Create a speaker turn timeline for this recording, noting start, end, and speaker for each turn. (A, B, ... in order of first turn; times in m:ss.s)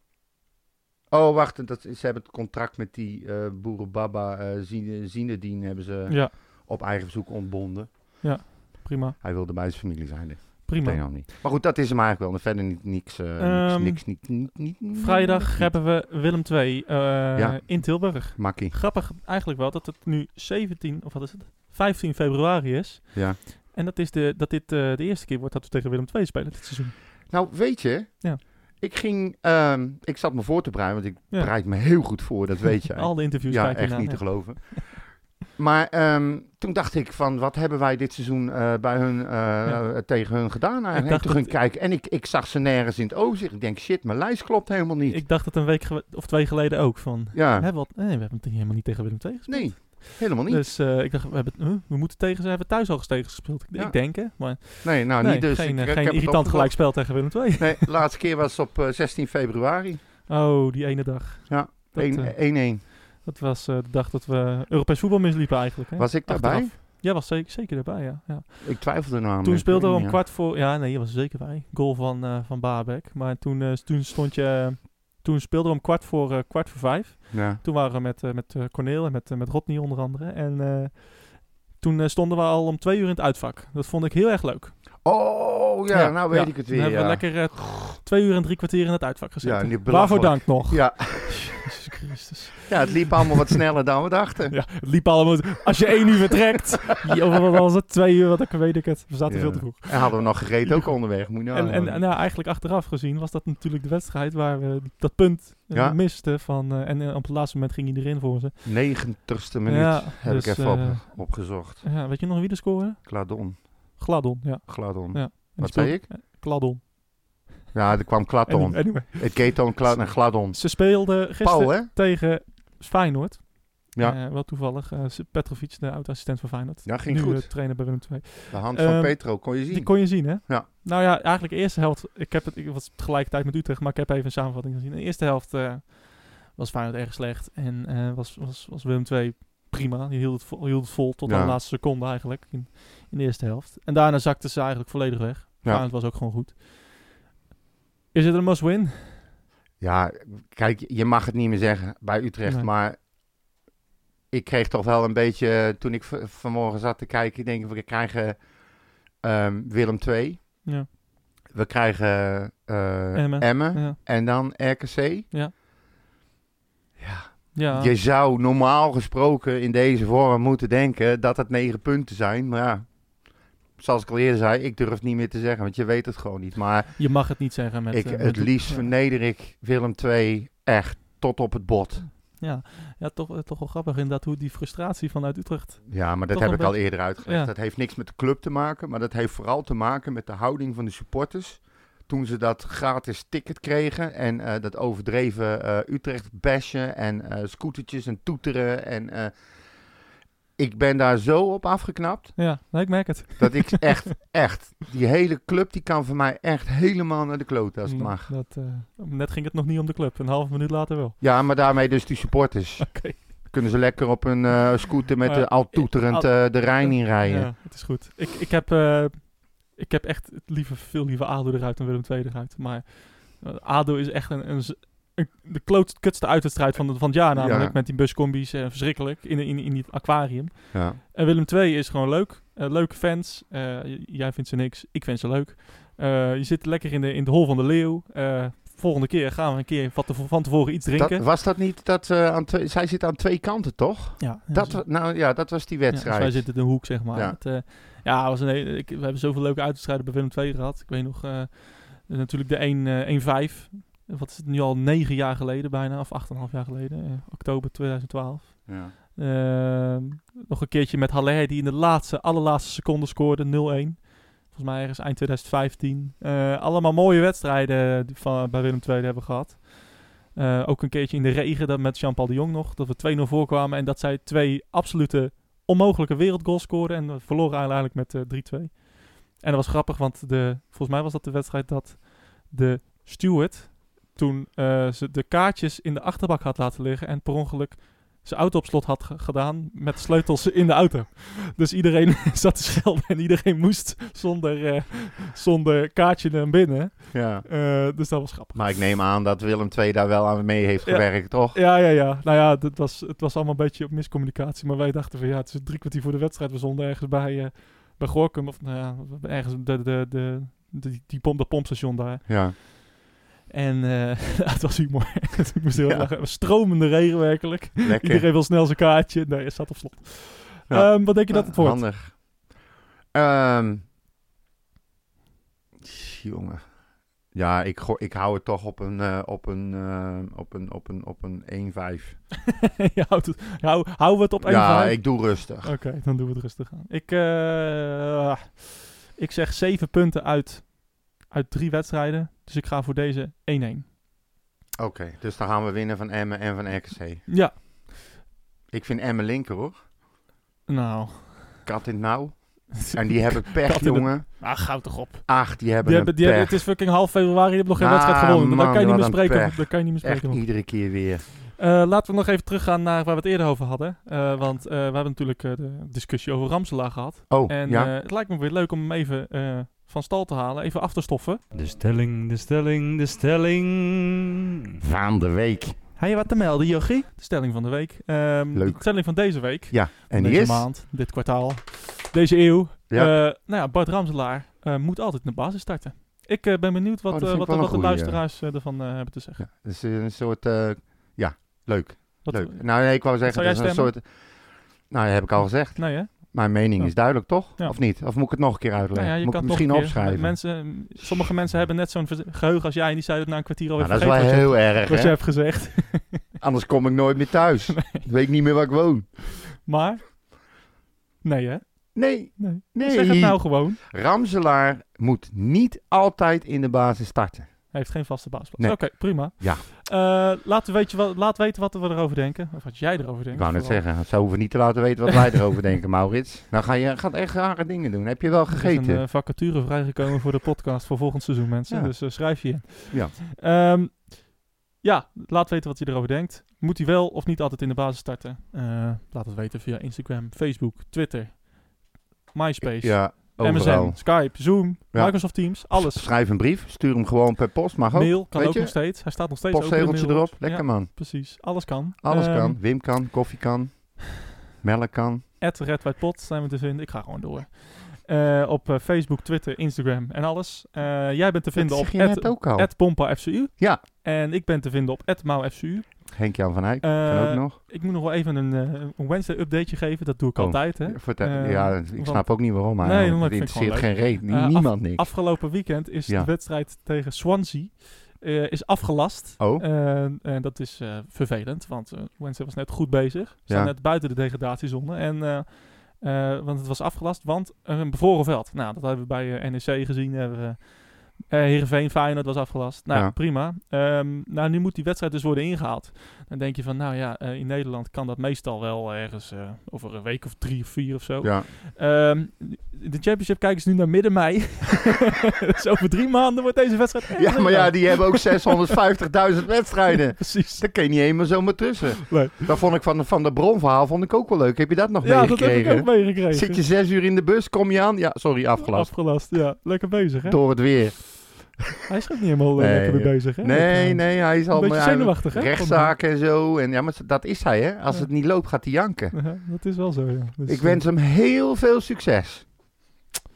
0:01.1-0:08.5 A
0:06.1-0:06.3 B
0:08.2-0:09.2 B
0:09.2-0:15.7 A
0:10.7-0:11.0 B
0:13.4-0:14.3 B
0:14.9-0:27.0 B
0:17.3-0:18.7 A
0:23.1-0:23.4 A
0:27.3-0:45.2 A
0:32.9-0:34.9 B
0:39.6-0:39.9 B
0:40.9-0:41.6 B
0:45.0-0:57.9 B
0:47.3-0:47.7 A
0:49.5-0:50.6 A
0:53.7-1:00.0 A
1:00.3-1:25.0 B
1:01.5-1:02.8 A
1:06.0-1:06.7 A
1:08.6-1:10.2 A
1:17.3-1:17.6 A
1:25.0-1:27.9 A
1:25.9-1:33.6 B
1:29.4-1:31.7 A
1:32.6-1:34.9 A
1:34.5-1:49.1 B
1:39.3-1:42.0 A
1:45.7-1:46.0 A
1:48.6-1:51.8 A
1:49.6-1:56.8 B
1:53.0-1:54.0 A
1:54.7-1:56.1 A
1:57.7-2:01.9 A
1:58.5-2:26.9 B
2:06.8-2:10.7 A
2:21.2-2:21.6 A
2:28.1-2:29.3 B
2:29.8-2:33.0 A
2:32.4-2:32.7 B
2:34.3-2:38.4 A
2:39.2-2:40.6 A
2:41.5-2:45.3 A
2:43.1-2:44.0 B
2:47.0-3:02.1 A
2:47.5-2:47.9 B
2:57.0-2:58.9 B
3:02.1-3:07.5 B
3:05.9-3:19.3 A
3:20.6-3:22.6 A
3:22.4-3:24.1 B
3:23.4-3:28.3 A
3:27.8-3:31.2 B
3:31.2-3:37.5 A
3:32.8-3:33.3 B
3:35.2-4:01.2 B
3:47.4-3:47.8 A
3:50.7-3:51.0 A
4:01.0-4:07.4 A
4:04.2-4:05.4 B
4:05.9-4:58.6 B
4:18.7-4:18.9 A
4:57.1-5:01.6 A
5:00.8-5:12.8 B
5:12.3-5:12.5 A
5:13.5-5:21.9 B
5:15.7-5:16.1 A
5:17.8-5:18.2 A
5:20.7-5:22.5 A
5:23.1-5:23.8 A
5:25.8-5:32.2 A
5:32.5-5:43.9 B
5:34.4-5:35.8 A
5:44.8-5:47.6 A
5:47.3-5:47.9 B
5:48.7-5:49.8 A
5:50.7-5:51.6 B
5:51.6-5:56.8 A
5:52.8-6:01.0 B
5:57.8-6:01.2 A
6:01.6-6:11.4 B
6:07.3-6:07.9 A
6:11.5-6:14.8 C
6:14.8-6:15.8 A
6:16.0-6:29.4 B
6:18.5-6:20.7 A
6:22.9-6:23.2 A
6:27.1-6:28.2 A
6:29.4-6:41.3 A
6:32.2-6:33.9 B
6:35.7-6:37.8 B
6:38.9-6:46.3 B
6:43.8-6:45.2 A
6:46.4-6:49.3 A
6:47.7-6:48.0 B
6:49.5-6:50.6 B
6:51.2-6:53.8 B
6:51.9-6:57.7 A
6:57.7-7:03.9 B
6:58.6-6:59.6 A
7:03.3-7:09.2 A
7:08.5-7:26.1 B
7:11.7-7:13.1 A
7:22.6-7:31.5 A
7:27.9-7:32.6 B
7:32.0-7:35.2 A
7:35.4-8:28.7 B
7:41.5-7:43.8 A
7:46.1-7:47.6 A
7:50.4-7:56.3 A
7:59.4-7:59.6 A
8:03.5-8:03.7 A
8:21.2-8:21.5 A
8:27.2-8:39.5 A
8:29.9-8:30.7 B
8:32.1-8:32.3 B
8:35.0-8:36.6 B
8:38.6-8:40.8 B
8:40.2-8:41.6 A
8:41.9-8:46.0 B
8:42.6-8:49.2 A
8:49.1-8:50.8 B
8:50.5-8:52.4 A